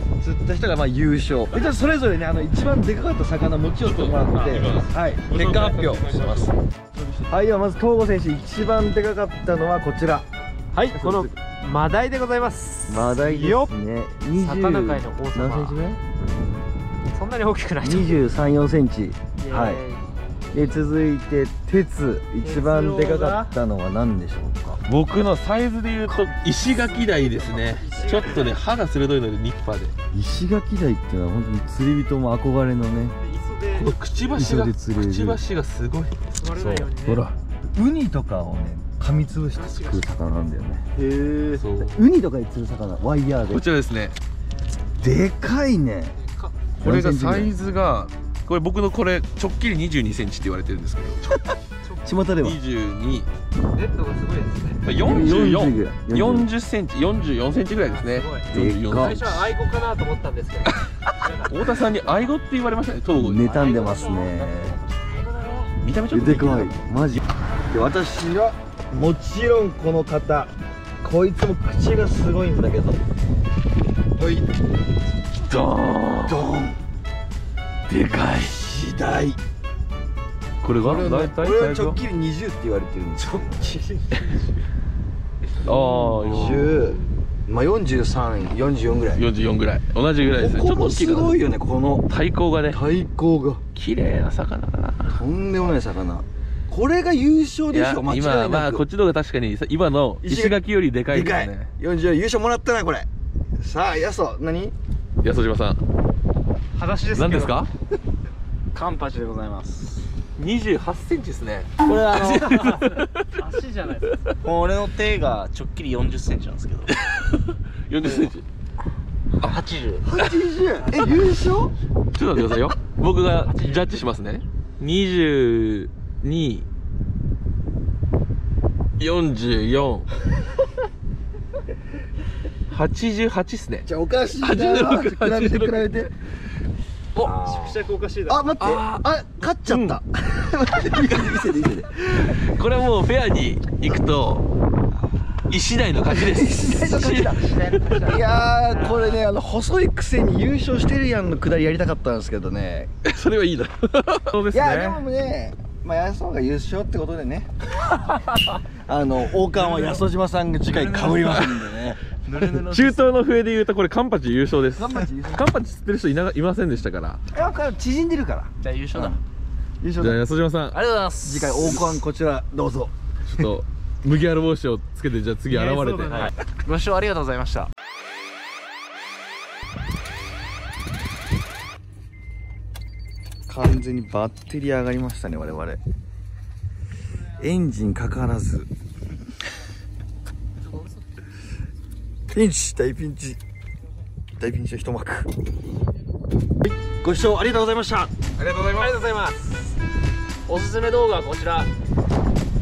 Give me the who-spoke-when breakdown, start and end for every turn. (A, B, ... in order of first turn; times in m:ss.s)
0:00.2-0:06.2 A
0:03.8-0:07.2 B
0:07.3-0:10.2 A
0:10.7-0:13.7 C
0:10.9-0:11.3 A
0:12.9-0:16.0 A
0:14.3-0:15.8 C
0:17.0-0:18.2 C
0:17.8-0:19.8 A
0:19.4-0:20.0 C
0:20.5-0:24.8 A
0:22.4-0:23.5 C
0:24.9-0:29.9 B
0:26.2-0:28.6 C
0:30.1-0:33.2 A
0:33.2-0:34.2 C
0:33.7-0:37.4 B
0:34.3-0:35.4 A
0:36.3-0:37.3 C
0:37.7-0:40.9 A
0:39.6-0:40.1 C
0:41.0-0:41.5 D
0:41.5-0:42.0 B
0:41.8-0:43.6 A
0:43.5-0:44.2 B
0:45.0-0:46.1 A
0:46.3-0:46.5 C
0:46.8-0:47.5 A
0:46.8-0:51.4 B
0:51.8-0:52.1 C
0:52.0-0:52.6 A
0:52.4-0:53.3 B
0:53.7-0:54.8 C
0:54.8-0:59.3 B
0:55.0-0:56.5 A
0:57.7-1:02.3 C
0:58.5-0:59.2 A
1:01.2-1:03.8 B
1:03.1-1:04.8 A
1:03.6-1:05.7 C
1:05.8-1:06.8 B
1:06.1-1:13.0 A
1:14.2-1:14.5 A
1:15.4-1:16.5 B
1:16.2-1:16.8 A
1:17.9-1:18.6 B
1:18.5-1:19.4 A
1:20.6-1:22.0 B
1:20.8-1:23.8 A
1:25.6-1:27.0 B
1:25.6-1:29.2 A
1:29.1-1:31.4 B
1:30.2-1:32.1 A
1:32.1-1:32.8 B
1:32.7-1:33.6 A
1:33.7-1:35.2 B
1:35.1-1:38.8 A
1:37.7-1:41.7 B
1:40.2-1:43.1 A
1:43.6-1:44.7 A
1:45.2-1:45.8 B
1:46.7-1:47.6 C
1:47.1-1:47.7 B
1:48.7-1:50.0 D
1:50.4-1:53.2 B
1:51.8-1:52.7 A
1:52.3-1:54.2 C
1:54.4-1:56.9 D
1:56.9-1:58.4 B
1:59.4-2:00.1 D
2:00.0-2:01.7 A
2:02.1-2:06.6 B
2:03.5-2:03.9 C
2:09.0-2:10.1 B
2:12.7-2:13.9 B
2:13.8-2:16.1 A
2:14.4-2:15.9 B
2:17.1-2:17.5 B
2:17.2-2:18.5 C
2:17.4-2:17.8 D
2:18.3-2:21.9 A
2:18.6-2:19.1 B
2:19.6-2:20.0 B
2:20.8-2:24.5 B
2:25.5-2:28.1 B
2:26.1-2:32.9 A
2:27.7-2:28.2 C
2:33.0-2:35.0 B
2:34.5-2:37.5 A
2:38.5-2:42.0 A
2:40.7-2:41.1 D
2:41.1-2:41.7 B
2:42.3-2:43.1 D
2:42.3-2:47.2 B
2:44.7-2:45.5 A
2:47.3-2:49.2 A
2:48.6-2:49.2 D
2:49.8-2:50.2 A
2:50.0-2:50.8 B
2:50.7-2:51.9 D
2:51.2-2:52.9 A
2:53.3-2:56.3 B
2:55.5-2:56.3 C
2:56.5-2:57.7 D
3:03.5-3:05.8 A
3:07.4-3:08.7 A
3:12.3-3:13.4 A
3:14.4-3:15.3 A
3:16.6-3:18.1 A
3:18.4-3:19.0 B
3:18.8-3:19.4 C
3:20.5-3:21.4 C
3:20.5-3:21.7 D